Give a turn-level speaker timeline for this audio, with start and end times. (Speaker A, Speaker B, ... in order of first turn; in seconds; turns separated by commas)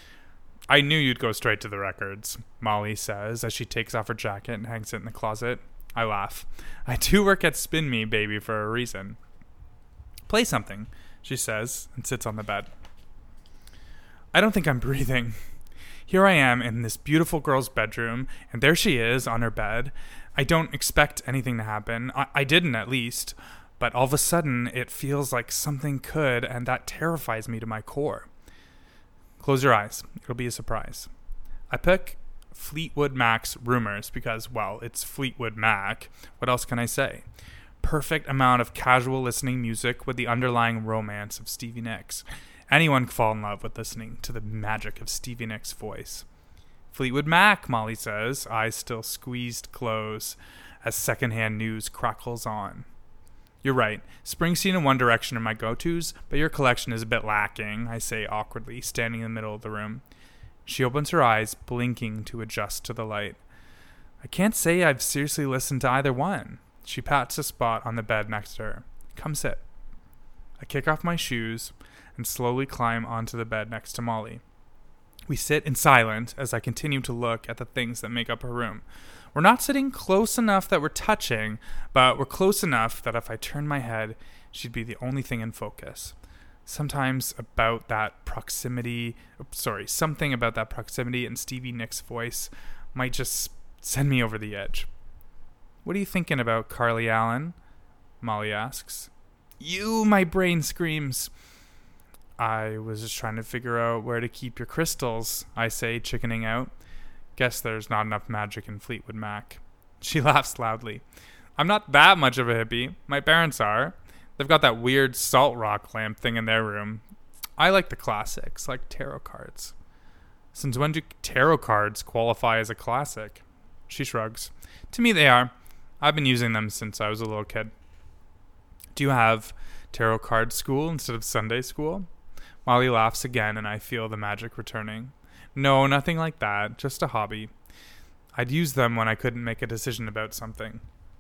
Speaker A: 0.7-9.2, Speaker A: 10.3-12.7, Speaker A: 14.3-15.4, Speaker A: 16.1-28.3, Speaker A: 29.4-31.1, Speaker A: 31.7-37.2, Speaker A: 37.8-46.2, Speaker A: 46.9-52.9, Speaker A: 53.6-60.0, Speaker A: 60.7-63.4, Speaker A: 64.2-69.6, Speaker A: 70.6-74.4, Speaker A: 75.3-86.2, Speaker A: 86.7-94.9, Speaker A: 95.8-97.5, Speaker A: 98.2-101.3, Speaker A: 102.4-106.7, Speaker A: 107.4-111.0, Speaker A: 111.6-117.0, Speaker A: 117.6-119.7, Speaker A: 120.5-127.7, Speaker A: 128.9-132.1, Speaker A: 132.7-137.5, Speaker A: 138.3-140.8